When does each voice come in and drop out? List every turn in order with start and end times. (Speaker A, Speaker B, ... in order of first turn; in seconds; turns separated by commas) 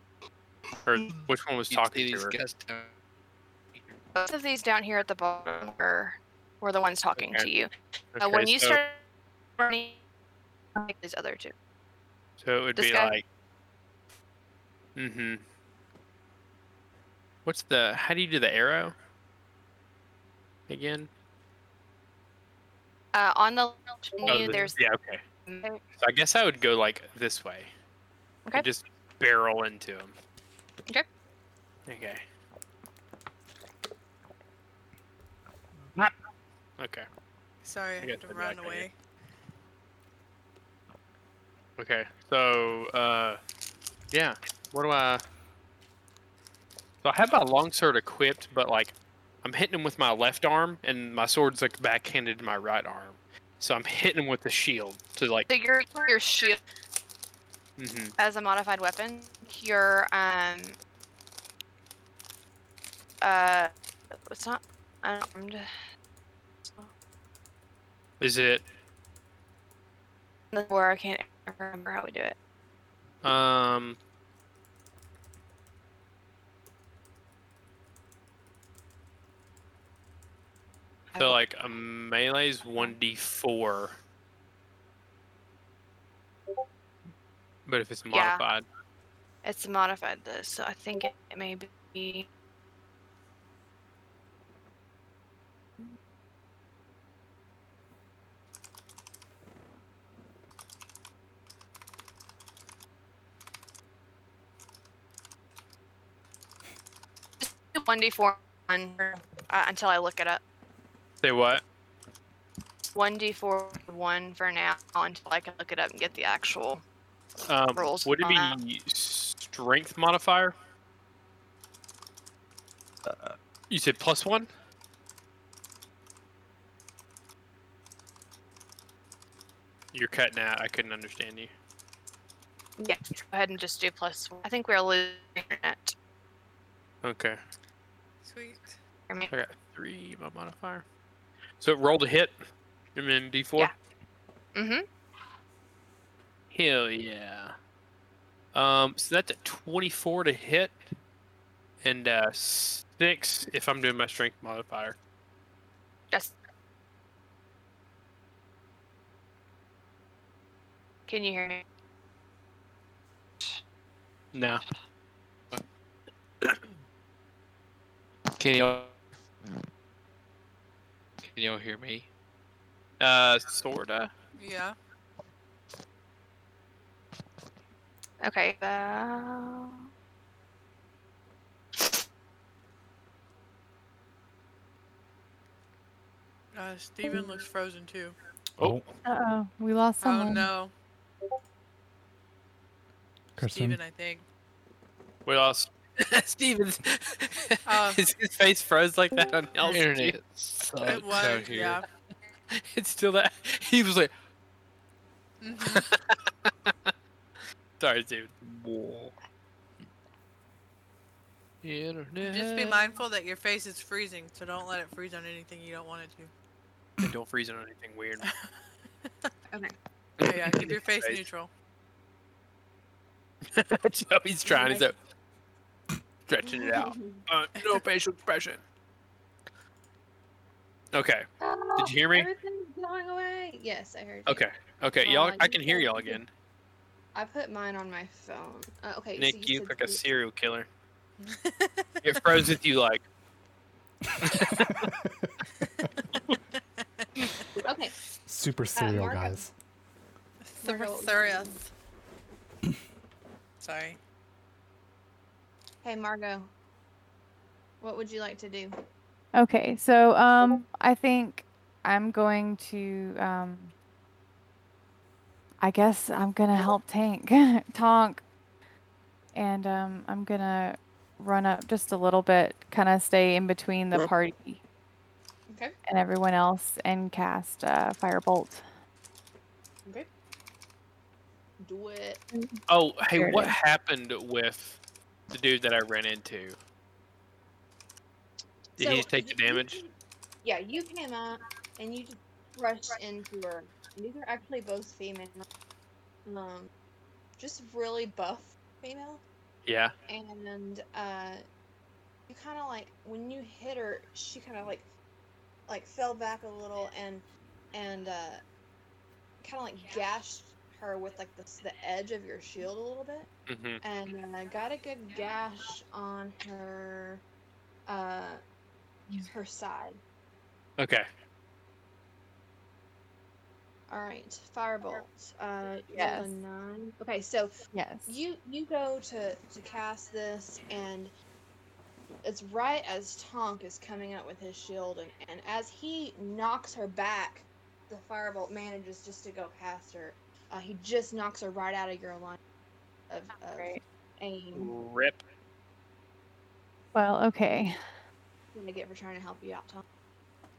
Speaker A: 0.9-2.4, Speaker B: 1.7-2.9, Speaker C: 4.2-9.0, Speaker A: 7.2-7.5, Speaker A: 8.2-8.8, Speaker C: 9.6-10.0, Speaker C: 10.8-11.5, Speaker A: 12.4-13.2, Speaker C: 12.8-13.1, Speaker A: 15.0-15.4, Speaker A: 17.5-18.9, Speaker A: 20.7-21.1, Speaker C: 23.1-24.8, Speaker A: 24.3-25.2, Speaker C: 25.5-25.8, Speaker A: 26.0-27.7, Speaker A: 28.5-30.2, Speaker A: 31.9-32.2, Speaker A: 36.8-37.1, Speaker D: 37.6-38.9, Speaker A: 38.0-38.9, Speaker A: 41.8-43.4, Speaker A: 44.1-45.2, Speaker A: 47.0-55.5, Speaker C: 55.5-56.6, Speaker A: 57.8-58.1, Speaker C: 58.2-60.8, Speaker C: 63.2-63.7, Speaker C: 64.3-65.7, Speaker A: 68.2-68.7, Speaker C: 70.5-72.4, Speaker A: 73.2-74.0, Speaker A: 81.2-84.0, Speaker A: 87.7-88.7, Speaker C: 88.1-88.4, Speaker C: 89.4-92.3, Speaker C: 107.4-110.4, Speaker A: 111.2-111.6, Speaker C: 112.9-116.8, Speaker A: 117.5-120.5, Speaker C: 117.8-118.6, Speaker A: 123.1-124.5, Speaker A: 129.9-131.5, Speaker C: 132.8-135.9, Speaker A: 137.0-137.4, Speaker D: 138.2-138.8, Speaker A: 139.3-140.8, Speaker A: 141.6-142.4, Speaker A: 142.9-143.7, Speaker C: 144.6-144.8, Speaker A: 146.5-147.5, Speaker A: 148.5-150.8, Speaker A: 151.8-155.0, Speaker C: 161.1-161.6, Speaker A: 164.3-164.6, Speaker B: 168.4-169.0, Speaker B: 171.2-172.1, Speaker A: 173.0-174.1, Speaker D: 174.4-174.8, Speaker C: 178.2-179.8, Speaker D: 186.5-188.2, Speaker E: 189.1-190.5, Speaker D: 190.0-190.7, Speaker F: 193.4-193.8, Speaker D: 193.4-194.3, Speaker A: 195.3-200.2, Speaker D: 197.7-198.1, Speaker B: 199.7-201.8, Speaker D: 200.8-201.9, Speaker A: 202.6-204.1, Speaker D: 205.4-205.9, Speaker A: 205.6-206.9, Speaker A: 207.8-208.3, Speaker B: 208.4-209.2, Speaker B: 211.6-212.8, Speaker D: 212.2-216.3, Speaker A: 217.0-218.3, Speaker G: 219.5-219.8, Speaker A: 220.2-221.2, Speaker D: 220.2-221.5, Speaker A: 223.5-225.0, Speaker G: 224.5-224.9, Speaker A: 226.3-228.6, Speaker G: 226.4-227.2, Speaker A: 230.9-232.3, Speaker G: 231.4-234.4, Speaker A: 234.3-236.3, Speaker G: 235.0-236.2, Speaker G: 237.1-240.0, Speaker A: 239.2-240.7, Speaker D: 241.2-242.3, Speaker A: 242.0-243.0, Speaker A: 244.3-244.9, Speaker F: 244.6-245.3, Speaker D: 246.8-247.4, Speaker G: 247.7-247.9, Speaker F: 248.3-249.5, Speaker G: 248.8-249.4, Speaker D: 250.4-251.7, Speaker G: 250.6-251.6, Speaker D: 253.6-254.0, Speaker G: 255.8-256.5, Speaker G: 257.8-258.8, Speaker E: 259.3-263.7, Speaker E: 265.6-268.2, Speaker E: 269.4-274.6, Speaker E: 275.9-278.6, Speaker G: 281.6-282.2, Speaker E: 282.3-282.6, Speaker A: 282.7-284.8, Speaker E: 283.1-283.5, Speaker A: 285.3-286.6, Speaker A: 288.8-289.8, Speaker G: 288.8-295.5, Speaker G: 296.3-296.7, Speaker G: 297.4-299.2, Speaker A: 299.7-299.9, Speaker G: 300.1-301.4, Speaker G: 302.3-304.9, Speaker G: 305.7-308.4, Speaker G: 309.4-313.3, Speaker A: 313.5-313.8, Speaker G: 313.8-317.2, Speaker G: 317.9-318.4, Speaker G: 319.2-320.0, Speaker A: 320.8-321.1, Speaker G: 323.9-327.6, Speaker E: 325.9-326.3, Speaker E: 327.7-328.1, Speaker G: 328.1-331.1, Speaker G: 332.2-342.4, Speaker G: 343.1-344.7, Speaker E: 343.4-343.8, Speaker A: 344.5-345.2, Speaker E: 346.9-347.8, Speaker G: 348.5-349.9